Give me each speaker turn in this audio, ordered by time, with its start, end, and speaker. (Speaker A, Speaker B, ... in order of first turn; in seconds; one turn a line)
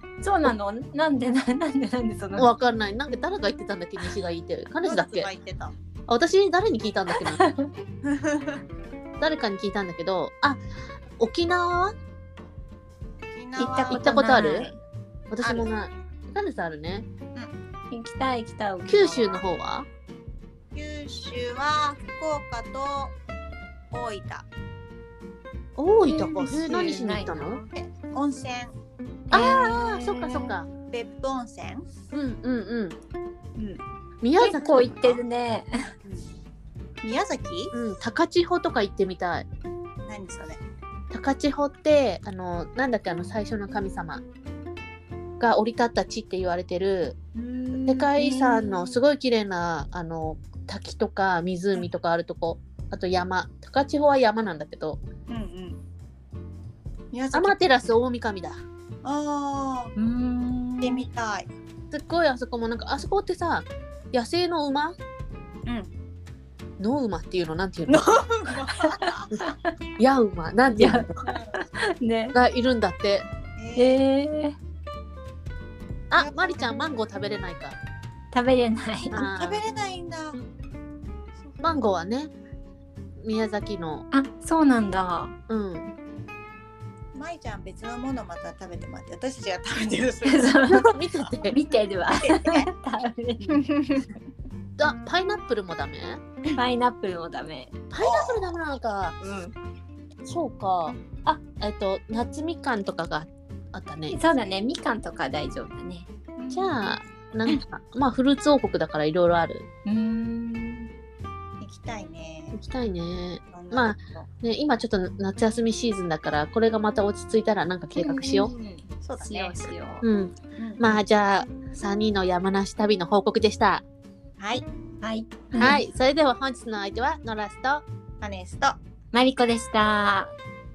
Speaker A: 0.2-2.5
Speaker B: 2.4-5.3
Speaker C: 4.8-5.7
Speaker B: 6.1-7.4
Speaker A: 7.2-7.7
Speaker C: 8.1-8.6
Speaker B: 9.2-10.6
Speaker B: 11.2-11.9
Speaker C: 13.3-14.7
Speaker A: 13.6-14.8
Speaker B: 13.9-14.7
Speaker B: 15.3-17.1
Speaker C: 15.4-15.7
Speaker A: 17.9-19.4
Speaker B: 18.9-19.9
Speaker C: 20.8-23.1
Speaker C: 23.9-24.5
Speaker B: 25.8-27.6
Speaker A: 26.1-27.7
Speaker C: 27.8-28.7
Speaker B: 29.3-30.7
Speaker A: 29.3-30.3
Speaker C: 30.5-31.9
Speaker B: 32.1-33.0
Speaker B: 34.2-35.2
Speaker A: 34.4-35.9
Speaker C: 37.0-37.7
Speaker B: 37.7-39.5
Speaker C: 40.1-40.6
Speaker B: 41.1-44.2
Speaker B: 45.4-47.2
Speaker C: 47.4-49.0
Speaker B: 47.9-55.0
Speaker C: 55.3-55.8
Speaker C: 57.1-57.6
Speaker B: 57.3-58.6
Speaker C: 59.0-59.9
Speaker A: 60.0-61.1
Speaker C: 60.8-61.5
Speaker B: 61.9-65.0
Speaker B: 66.8-68.1
Speaker C: 67.9-69.3
Speaker A: 68.7-69.5
Speaker B: 70.0-71.2
Speaker A: 70.7-72.4
Speaker C: 71.3-71.6
Speaker B: 72.3-73.3
Speaker C: 73.6-74.0
Speaker A: 73.8-74.6
Speaker B: 76.1-77.8
Speaker C: 76.2-76.6
Speaker A: 78.3-79.3
Speaker B: 79.1-79.6
Speaker C: 79.2-80.4
Speaker C: 81.4-81.8
Speaker B: 81.6-82.3
Speaker B: 83.2-84.0
Speaker A: 84.1-85.3
Speaker B: 85.5-85.9
Speaker C: 87.2-90.7
Speaker A: 90.3-90.9
Speaker B: 90.7-91.6
Speaker A: 91.5-93.7
Speaker C: 92.1-92.7
Speaker C: 93.5-94.1
Speaker B: 94.8-96.2
Speaker A: 96.6-97.7
Speaker B: 97.9-99.2
Speaker C: 98.0-98.5
Speaker A: 99.2-99.5
Speaker B: 100.3-104.2
Speaker A: 104.1-106.1
Speaker C: 106.4-106.9
Speaker B: 106.5-109.7
Speaker A: 109.9-110.9
Speaker C: 111.6-112.6
Speaker B: 112.5-118.5
Speaker C: 113.5-114.3
Speaker A: 118.0-120.0
Speaker C: 119.0-119.7
Speaker B: 120.0-123.8
Speaker C: 124.4-124.7
Speaker A: 125.0-125.8
Speaker B: 125.5-127.8
Speaker C: 128.2-128.8
Speaker A: 129.1-130.3